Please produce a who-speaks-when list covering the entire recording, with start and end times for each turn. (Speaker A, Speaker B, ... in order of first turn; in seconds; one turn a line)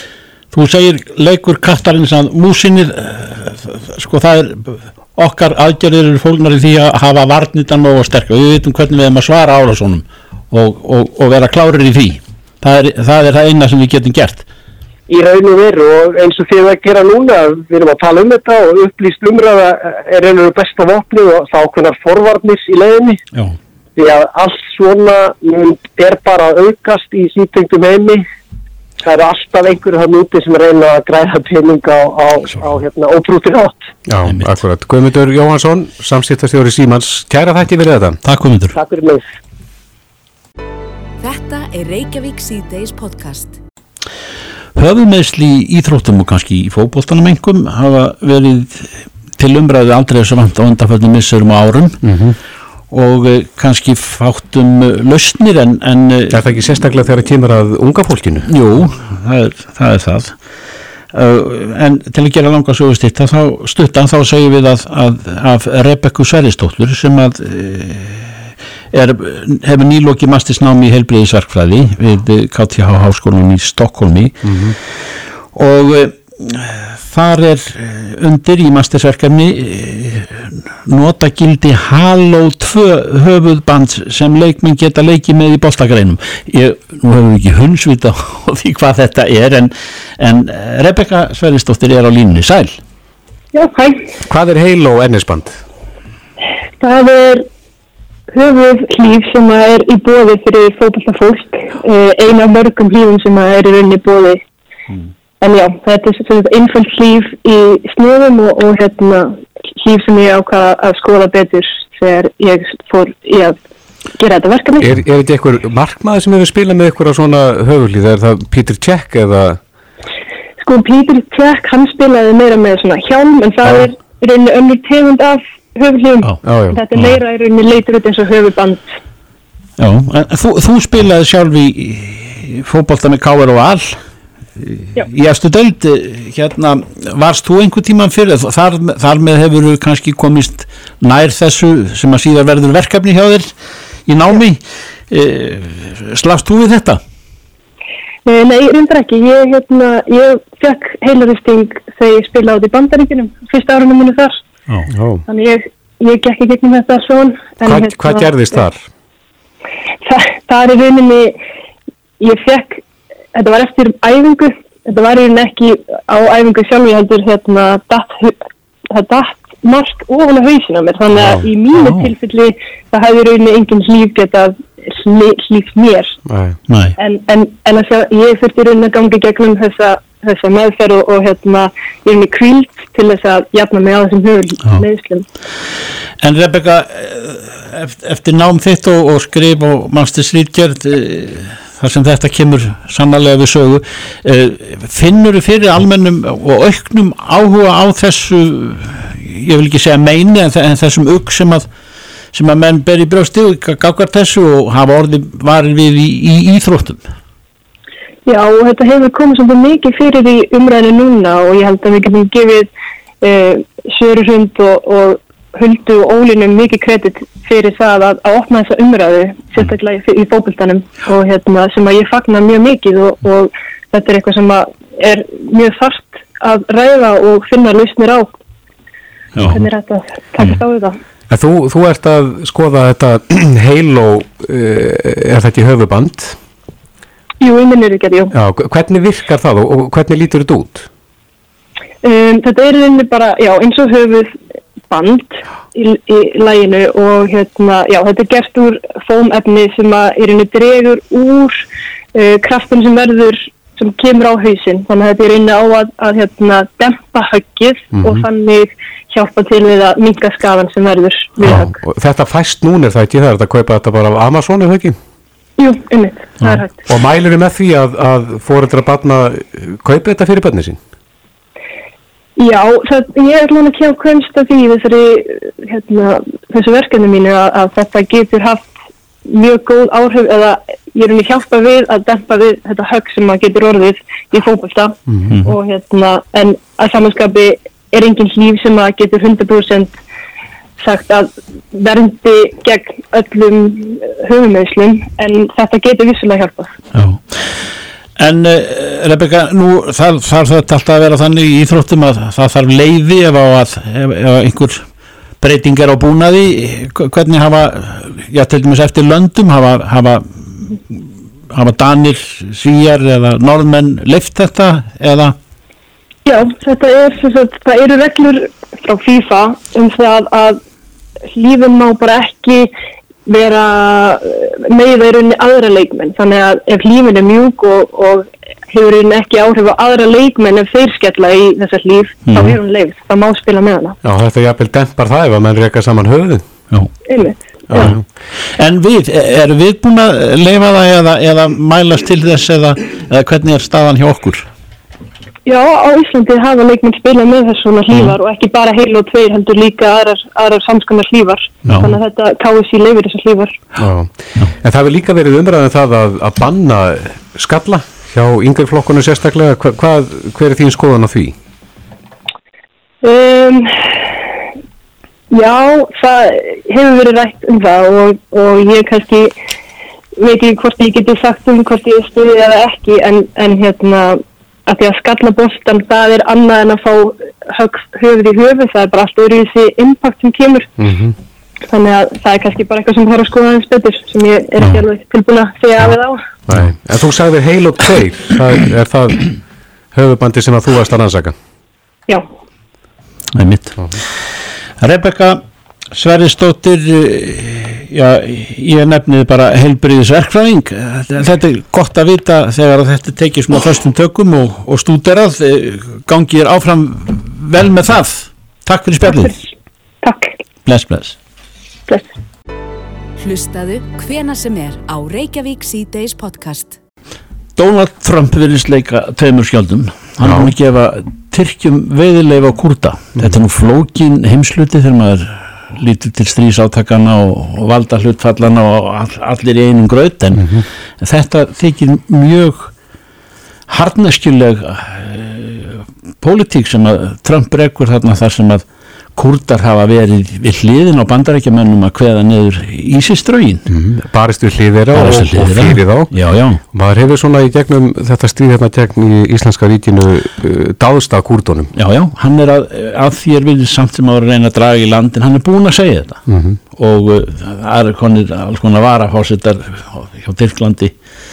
Speaker A: 0.5-14.4
Speaker B: 15.1-23.2
Speaker B: 23.9-28.2
Speaker B: 29.0-33.7
Speaker C: 34.1-38.2
Speaker A: 34.2-34.6
Speaker A: 38.2-38.7
Speaker B: 38.7-39.2
Speaker D: 41.2-43.6
Speaker A: 44.8-52.0
Speaker C: 52.0-52.4
Speaker A: 52.9-56.4
Speaker C: 56.3-58.5
Speaker A: 58.5-60.4
Speaker A: 61.1-68.4
Speaker A: 68.9-74.5
Speaker C: 74.4-74.8
Speaker A: 75.5-92.8
Speaker E: 93.5-94.0
Speaker C: 94.2-95.6
Speaker E: 96.8-97.5
Speaker E: 98.3-104.4
Speaker E: 105.4-113.5
Speaker E: 114.2-114.9
Speaker C: 114.8-119.6
Speaker E: 120.6-128.8
Speaker C: 126.4-126.8
Speaker A: 129.8-134.0
Speaker A: 134.6-143.5
Speaker A: 144.1-147.0
Speaker E: 148.2-154.4
Speaker C: 154.9-155.2
Speaker E: 155.3-158.3
Speaker C: 157.6-158.8
Speaker E: 160.1-161.3
Speaker E: 162.2-162.8
Speaker E: 163.3-168.3
Speaker E: 168.9-176.1
Speaker C: 171.1-171.4
Speaker A: 171.7-172.1
Speaker C: 176.2-176.6
Speaker A: 176.7-176.9
Speaker E: 177.0-185.2
Speaker A: 186.2-201.7
Speaker A: 202.3-207.0
Speaker E: 208.2-212.7
Speaker E: 213.2-228.3
Speaker A: 229.3-229.6
Speaker E: 229.5-230.9
Speaker C: 231.3-236.4
Speaker E: 237.4-238.3
Speaker C: 238.3-240.9
Speaker E: 242.0-244.3
Speaker E: 244.9-251.6
Speaker E: 252.1-261.7
Speaker C: 257.9-258.2
Speaker C: 261.4-265.0
Speaker E: 265.6-266.7
Speaker C: 266.9-270.8
Speaker E: 272.4-278.6
Speaker E: 279.3-289.9
Speaker A: 285.3-285.5
Speaker E: 290.8-296.7
Speaker A: 296.9-297.5
Speaker A: 298.2-304.8
Speaker A: 305.4-315.4
Speaker E: 316.2-320.6
Speaker E: 321.3-322.7
Speaker E: 323.3-333.9
Speaker A: 332.3-332.6
Speaker C: 334.0-336.4
Speaker E: 337.1-337.9
Speaker C: 337.7-338.0
Speaker A: 338.5-344.5
Speaker E: 345.4-353.5
Speaker A: 351.7-351.9
Speaker C: 353.8-361.4
Speaker E: 363.0-363.7
Speaker E: 365.3-369.3
Speaker E: 370.2-380.7
Speaker C: 380.8-381.1
Speaker E: 381.7-386.1
Speaker C: 386.5-389.3
Speaker C: 389.9-391.3
Speaker A: 393.3-394.0
Speaker A: 394.8-409.4
Speaker E: 409.0-409.4
Speaker E: 410.0-410.3
Speaker A: 410.6-411.1
Speaker D: 413.2-416.8
Speaker A: 417.6-432.7
Speaker C: 420.2-420.5
Speaker C: 430.3-430.6
Speaker A: 433.7-438.6
Speaker A: 439.1-443.7
Speaker C: 443.7-446.1
Speaker A: 444.9-446.6
Speaker C: 446.7-451.7
Speaker A: 451.8-456.2
Speaker C: 456.3-456.6
Speaker A: 456.7-460.9